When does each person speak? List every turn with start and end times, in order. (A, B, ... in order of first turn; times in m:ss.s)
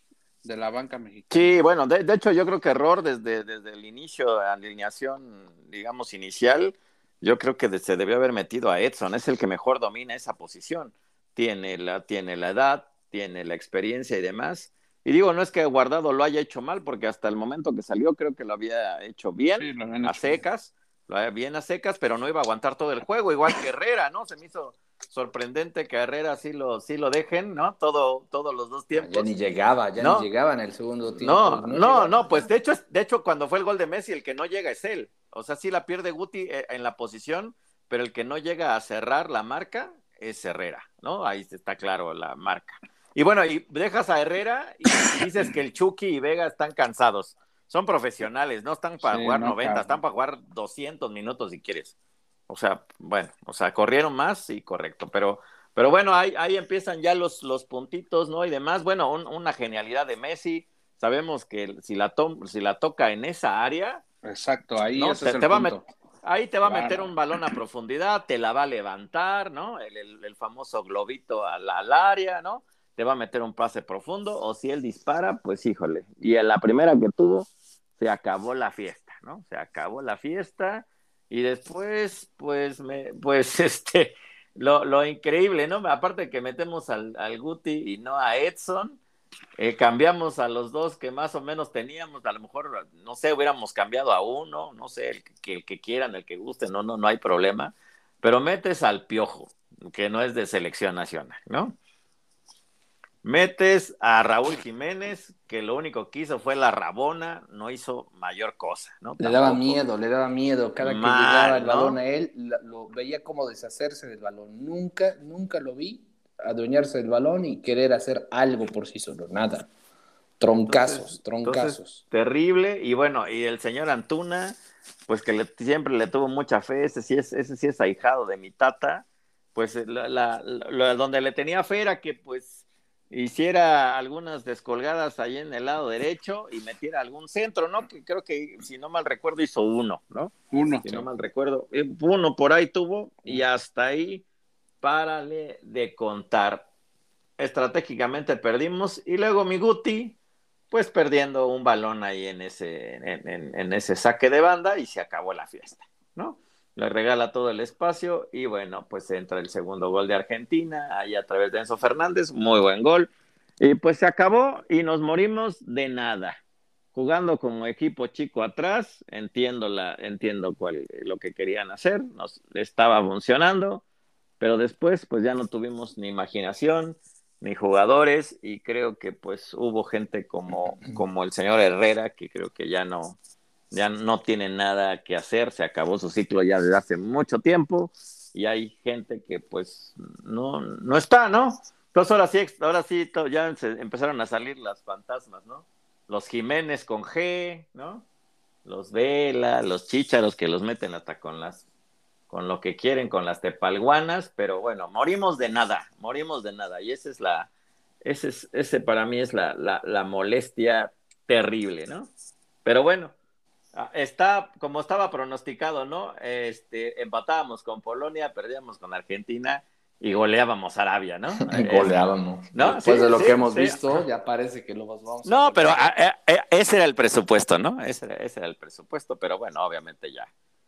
0:00.4-0:01.5 A
0:01.3-0:29.3 B
0:19.6-0:20.4 A
0:28.9-0:32.5 C
0:30.0-0:30.3 B
0:31.1-0:51.9 B
0:49.0-0:49.9 A
0:52.5-1:04.0 B
1:04.2-1:05.8 A
1:05.0-1:29.0 B
1:06.6-1:07.1 A
1:29.6-1:41.8 B
1:43.2-1:49.8 B
1:49.2-1:59.7 C
1:50.8-1:52.0 B
2:00.4-2:02.0 C
2:00.6-2:24.2 B
2:20.5-2:21.1 A
2:24.8-2:26.7 B
2:27.4-2:30.2 B
2:30.7-2:46.4 B
2:46.9-2:53.8 B
2:54.4-3:03.2 B
3:03.7-3:18.0 B
3:18.6-3:21.6 B
3:22.3-3:27.5 B
3:28.0-3:32.1 B
3:32.6-3:33.1 B
3:33.7-3:41.9 B
3:41.4-3:45.9 C
3:42.5-3:44.0 B
3:45.2-3:50.3 B